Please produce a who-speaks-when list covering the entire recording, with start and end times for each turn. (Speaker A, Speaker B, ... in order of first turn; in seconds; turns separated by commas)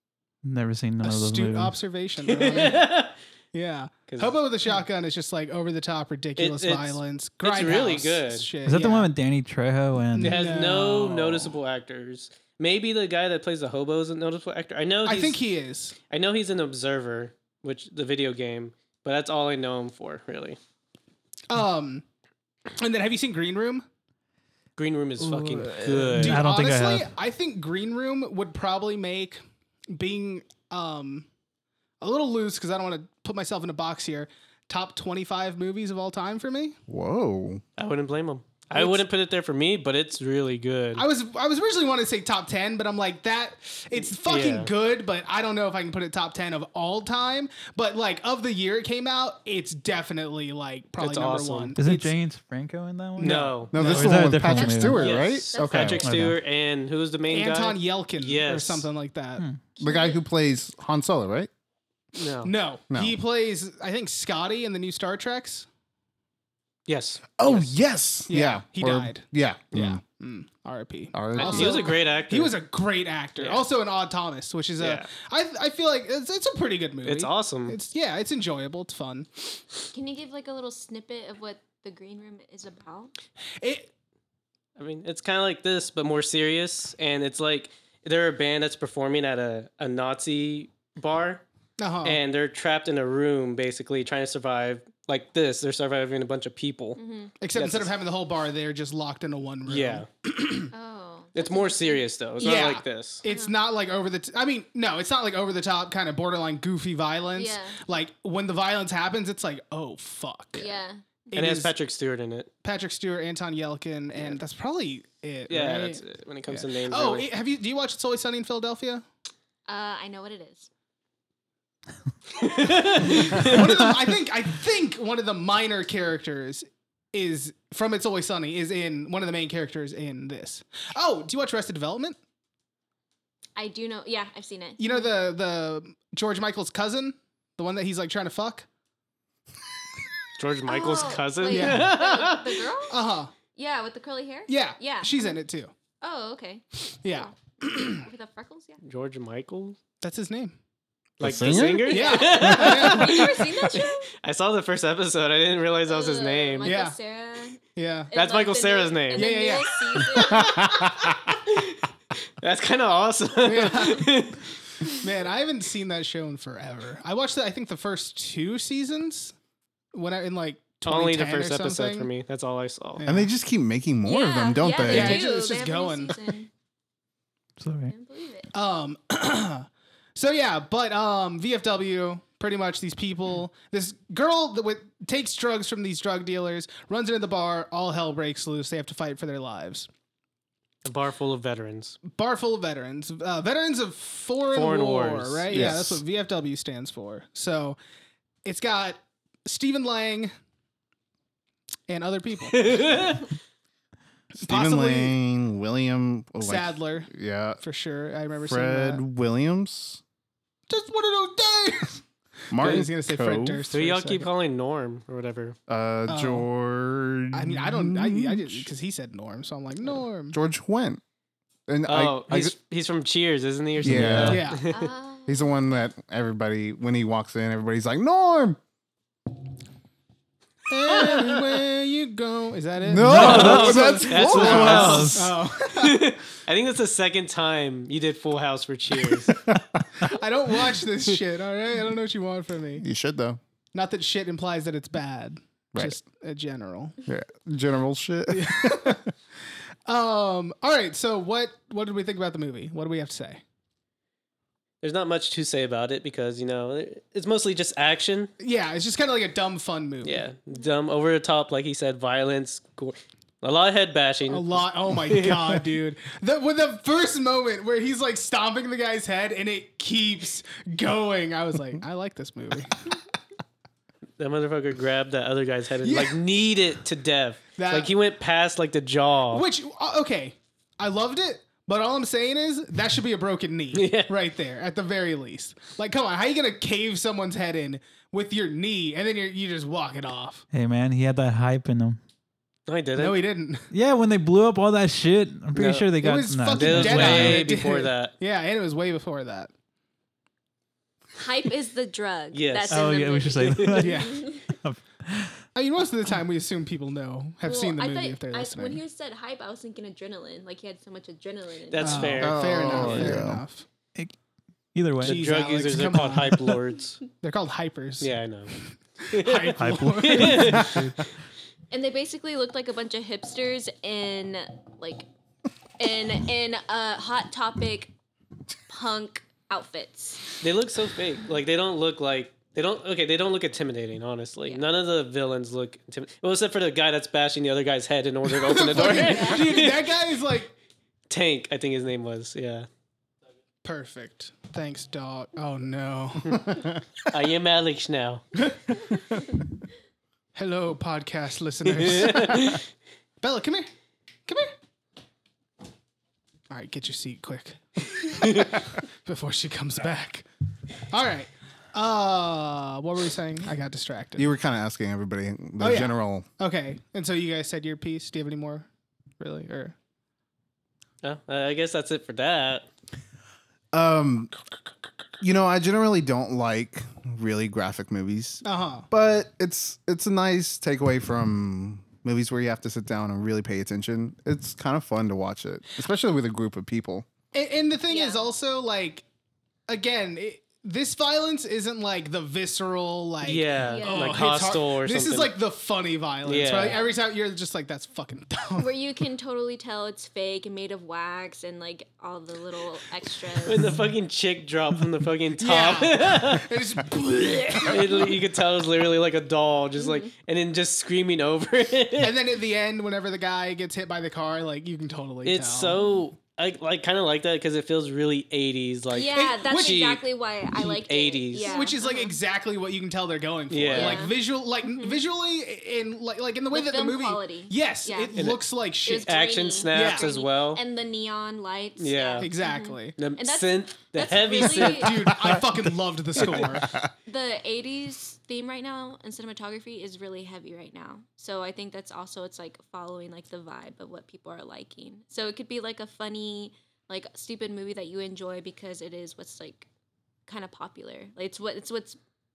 Speaker A: 0.4-1.8, Speaker B: 1.0-2.9, Speaker C: 2.2-3.1, Speaker B: 3.5-9.1, Speaker C: 4.1-4.4, Speaker C: 6.4-8.5, Speaker A: 8.6-10.5, Speaker B: 10.1-11.6, Speaker C: 10.2-15.4, Speaker B: 15.0-15.9, Speaker C: 16.1-20.6, Speaker B: 21.5-22.0, Speaker B: 22.7-23.8, Speaker C: 24.8-26.4, Speaker A: 25.5-27.1, Speaker B: 26.1-31.2, Speaker B: 32.0-36.8, Speaker D: 36.9-37.6, Speaker C: 37.8-41.0, Speaker B: 38.7-39.0, Speaker B: 41.0-52.1, Speaker C: 44.1-44.7, Speaker C: 51.0-51.7, Speaker A: 51.8-55.0, Speaker B: 53.2-54.2, Speaker C: 53.2-54.1, Speaker D: 53.7-56.0, Speaker E: 54.5-56.3, Speaker C: 55.0-58.9, Speaker A: 55.9-56.4, Speaker B: 57.3-59.4, Speaker E: 59.7-60.2, Speaker D: 59.8-61.5, Speaker C: 62.1-62.5, Speaker B: 62.4-65.7, Speaker D: 62.9-63.1, Speaker C: 66.9-67.8, Speaker D: 67.4-70.0, Speaker B: 68.3-79.6, Speaker D: 71.1-71.9, Speaker C: 71.3-72.6, Speaker C: 73.4-73.7, Speaker C: 74.8-75.1, Speaker C: 77.0-77.8, Speaker E: 79.9-83.1, Speaker B: 83.6-83.9, Speaker C: 84.8-91.4, Speaker B: 91.8-92.2, Speaker C: 92.0-97.0, Speaker E: 97.0-97.3, Speaker B: 97.4-100.7, Speaker C: 97.5-97.9, Speaker C: 99.7-100.0, Speaker E: 100.7-102.7, Speaker C: 101.3-103.2, Speaker B: 102.4-110.7, Speaker E: 103.2-103.5, Speaker E: 107.3-107.8, Speaker E: 110.5-111.0, Speaker B: 111.3-111.7, Speaker C: 111.3-112.5, Speaker B: 112.6-119.0, Speaker C: 115.5-117.3, Speaker E: 119.7-120.7, Speaker C: 122.4-123.8, Speaker B: 123.0-132.2, Speaker E: 133.6-135.1, Speaker B: 134.8-138.7, Speaker C: 140.4-142.6, Speaker E: 140.7-143.0, Speaker B: 141.4-142.0, Speaker B: 142.9-143.3, Speaker E: 143.5-145.4, Speaker B: 144.5-145.7, Speaker E: 146.0-148.8, Speaker B: 147.0-148.1, Speaker C: 148.8-149.8, Speaker B: 150.0-150.6, Speaker C: 151.2-156.8, Speaker D: 151.2-151.9, Speaker B: 151.8-153.4, Speaker E: 151.9-154.1, Speaker E: 155.8-160.7, Speaker B: 156.6-157.0, Speaker B: 157.8-158.1, Speaker C: 158.1-161.8, Speaker B: 159.1-160.6, Speaker D: 160.2-161.3, Speaker C: 162.4-164.5, Speaker B: 163.4-164.3, Speaker B: 164.8-169.3, Speaker B: 169.9-172.1, Speaker C: 170.8-173.0, Speaker B: 173.0-173.3, Speaker D: 173.0-175.4, Speaker E: 174.0-176.5, Speaker B: 174.8-176.2, Speaker A: 177.6-177.9, Speaker E: 177.9-178.5, Speaker B: 178.5-189.9, Speaker C: 190.8-192.0, Speaker B: 192.1-197.8, Speaker C: 194.5-195.8, Speaker D: 195.5-196.0, Speaker B: 198.4-200.3, Speaker B: 201.9-202.7, Speaker C: 202.5-203.3, Speaker B: 204.4-205.1, Speaker D: 204.4-207.6, Speaker B: 206.4-209.0, Speaker D: 208.4-210.0, Speaker B: 210.7-214.3, Speaker D: 212.5-213.6, Speaker C: 213.7-215.6, Speaker D: 215.7-218.7, Speaker B: 216.1-216.5, Speaker B: 217.3-220.3, Speaker D: 220.3-221.0, Speaker D: 221.7-222.5, Speaker C: 221.8-224.8, Speaker D: 223.8-224.4, Speaker B: 223.9-224.7, Speaker E: 224.7-225.5, Speaker D: 225.3-228.6, Speaker B: 230.7-236.1, Speaker C: 230.9-231.4, Speaker D: 232.8-235.2, Speaker A: 233.0-235.3, Speaker C: 233.1-239.3, Speaker D: 239.1-239.9, Speaker B: 240.0-242.8, Speaker D: 242.8-243.4, Speaker B: 243.7-247.0, Speaker D: 247.1-249.0, Speaker B: 248.3-249.1, Speaker B: 249.8-253.4, Speaker C: 254.8-258.3, Speaker B: 258.4-260.2, Speaker C: 260.0-265.6, Speaker B: 264.3-272.8, Speaker C: 274.2-279.5, Speaker B: 275.8-276.2, Speaker B: 277.6-277.9, Speaker B: 279.3-290.4, Speaker C: 283.7-284.1, Speaker A: 290.5-292.0, Speaker C: 292.7-293.2, Speaker B: 293.0-293.7, Speaker A: 293.7-297.5, Speaker C: 295.5-295.9, Speaker B: 296.0-299.5, Speaker C: 296.5-298.1, Speaker E: 301.1-304.5, Speaker C: 302.3-303.8, Speaker A: 302.7-305.4, Speaker B: 303.8-304.2, Speaker B: 305.5-308.8, Speaker E: 307.4-312.2, Speaker C: 311.7-313.1, Speaker B: 311.8-313.6, Speaker D: 312.2-313.4, Speaker A: 312.8-313.2, Speaker A: 314.7-315.2, Speaker B: 315.0-316.6, Speaker C: 315.0-317.0, Speaker B: 317.2-318.1, Speaker C: 318.0-318.5, Speaker B: 319.1-320.9, Speaker C: 319.1-320.8, Speaker A: 319.6-320.9, Speaker E: 321.7-325.1, Speaker E: 325.8-327.9, Speaker E: 328.7-330.3, Speaker C: 330.4-339.9, Speaker B: 338.3-340.5, Speaker E: 338.8-339.5, Speaker C: 341.1-342.7, Speaker B: 343.6-346.7, Speaker C: 347.1-348.2, Speaker B: 350.3-352.6, Speaker C: 351.8-352.6, Speaker B: 353.2-353.7, Speaker B: 354.3-354.5, Speaker B: 356.5-360.3, Speaker B: 360.9-364.3, Speaker D: 364.2-366.3, Speaker B: 365.6-368.7, Speaker B: 369.2-369.7, Speaker C: 371.0-372.7, Speaker D: 373.7-374.3, Speaker D: 375.2-387.1, Speaker B: 378.4-378.9, Speaker B: 387.3-389.0, Speaker E: 387.9-388.3, Speaker B: 389.7-398.7, Speaker C: 393.2-395.3, Speaker E: 393.7-394.3, Speaker C: 396.2-396.8, Speaker E: 396.6-396.9, Speaker E: 398.6-403.6, Speaker C: 403.4-406.5, Speaker B: 405.4-408.1, Speaker C: 407.7-412.2, Speaker E: 409.8-410.1, Speaker B: 412.0-415.8, Speaker C: 415.2-420.0, Speaker E: 418.9-422.2, Speaker B: 419.1-419.9, Speaker C: 420.9-421.7, Speaker B: 421.3-429.1, Speaker C: 423.5-424.1, Speaker E: 423.7-425.0, Speaker E: 426.5-428.3, Speaker C: 428.1-428.4, Speaker E: 428.8-435.3, Speaker C: 429.0-430.6, Speaker B: 429.7-430.1, Speaker C: 431.8-432.3, Speaker B: 432.2-432.9, Speaker C: 433.0-435.1, Speaker B: 434.2-436.8, Speaker C: 436.2-436.5, Speaker E: 437.1-449.7, Speaker E: 450.3-452.0